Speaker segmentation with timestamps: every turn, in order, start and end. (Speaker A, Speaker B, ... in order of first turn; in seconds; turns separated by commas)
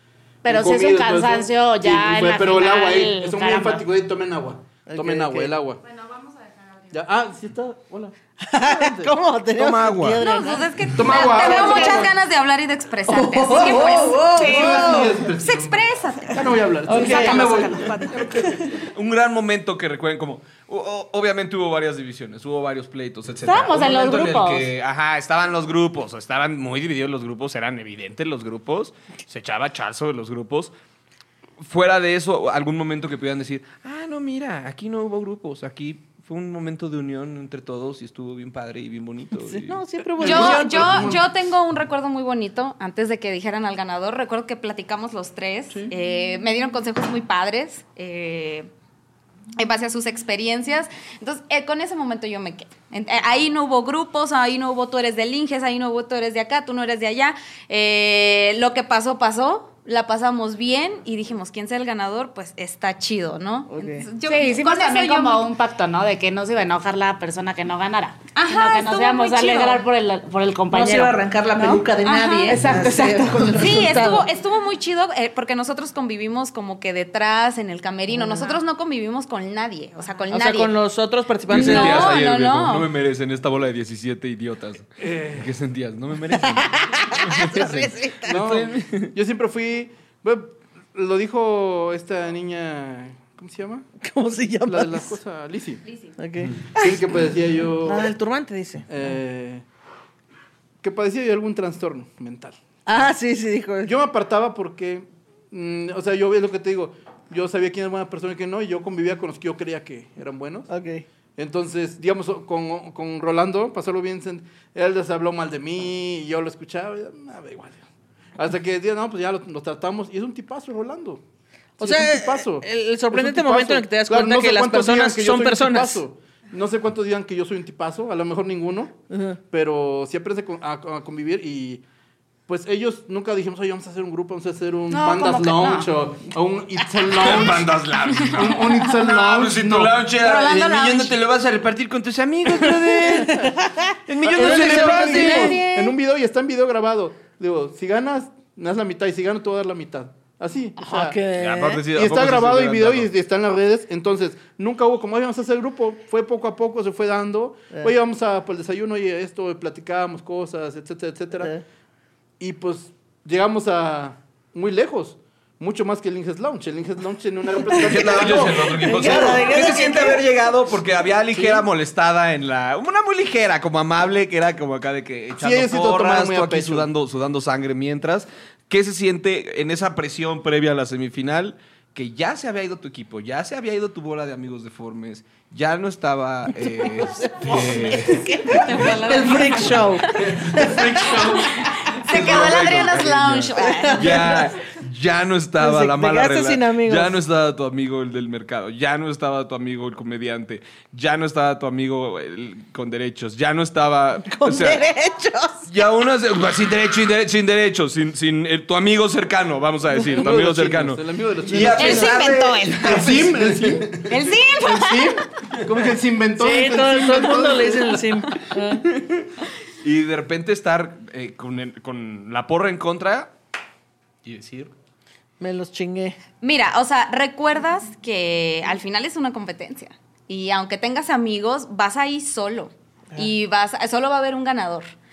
Speaker A: 0.4-3.8, Speaker B: 0.5-5.8, Speaker C: 4.9-5.5, Speaker B: 6.9-9.1, Speaker C: 8.4-10.7, Speaker D: 9.6-10.2, Speaker E: 10.2-14.6, Speaker B: 11.0-12.1, Speaker C: 11.3-12.1, Speaker C: 13.1-15.1, Speaker A: 14.2-14.8, Speaker B: 14.4-18.3, Speaker E: 15.4-16.4, Speaker C: 16.9-18.5, Speaker E: 17.0-17.8, Speaker D: 18.9-30.7, Speaker A: 23.4-24.7, Speaker D: 31.6-39.8, Speaker C: 39.4-41.2, Speaker B: 40.2-41.3, Speaker E: 40.2-48.7, Speaker E: 49.6-65.5, Speaker C: 63.7-64.1, Speaker A: 64.2-71.9, Speaker E: 68.3-69.8, Speaker C: 70.7-74.2, Speaker E: 72.0-72.6, Speaker A: 72.5-73.8, Speaker E: 73.5-80.7, Speaker C: 80.3-82.1, Speaker E: 81.5-82.9, Speaker D: 81.5-89.1, Speaker B: 85.0-85.5, Speaker C: 86.5-88.4, Speaker B: 88.2-93.8, Speaker C: 94.0-95.2, Speaker B: 94.7-95.8, Speaker E: 95.9-96.1, Speaker C: 96.2-97.0, Speaker B: 96.8-98.1, Speaker C: 97.8-98.9, Speaker B: 98.9-99.6, Speaker B: 100.8-102.6, Speaker C: 102.9-103.9, Speaker B: 103.8-110.7, Speaker C: 110.7-111.0, Speaker B: 111.4-117.8, Speaker B: 118.4-121.2, Speaker C: 121.8-126.0, Speaker B: 121.8-129.0, Speaker C: 129.1-129.4, Speaker B: 129.5-131.8, Speaker B: 132.5-137.7, Speaker A: 134.9-135.9, Speaker D: 137.1-143.5, Speaker B: 138.3-140.1, Speaker E: 140.1-141.1, Speaker C: 142.7-145.9, Speaker D: 144.1-145.6, Speaker B: 144.2-151.2, Speaker C: 150.8-151.8, Speaker D: 151.3-153.1, Speaker B: 151.9-161.5, Speaker B: 162.4-169.5, Speaker D: 167.7-191.4, Speaker C: 168.8-170.2, Speaker B: 171.3-171.7, Speaker B: 175.4-176.9, Speaker C: 186.7-191.2, Speaker E: 192.1-194.5, Speaker D: 192.1-204.8, Speaker C: 193.6-194.4, Speaker C: 195.6-197.2, Speaker C: 204.3-205.7, Speaker D: 205.7-213.9, Speaker B: 210.0-212.2, Speaker E: 211.8-213.1, Speaker C: 211.8-212.1, Speaker B: 212.8-214.1, Speaker E: 214.1-215.2, Speaker B: 214.6-218.1, Speaker C: 216.4-218.8, Speaker D: 219.8-223.3, Speaker D: 224.2-224.7, Speaker C: 225.4-226.2, Speaker E: 226.4-234.9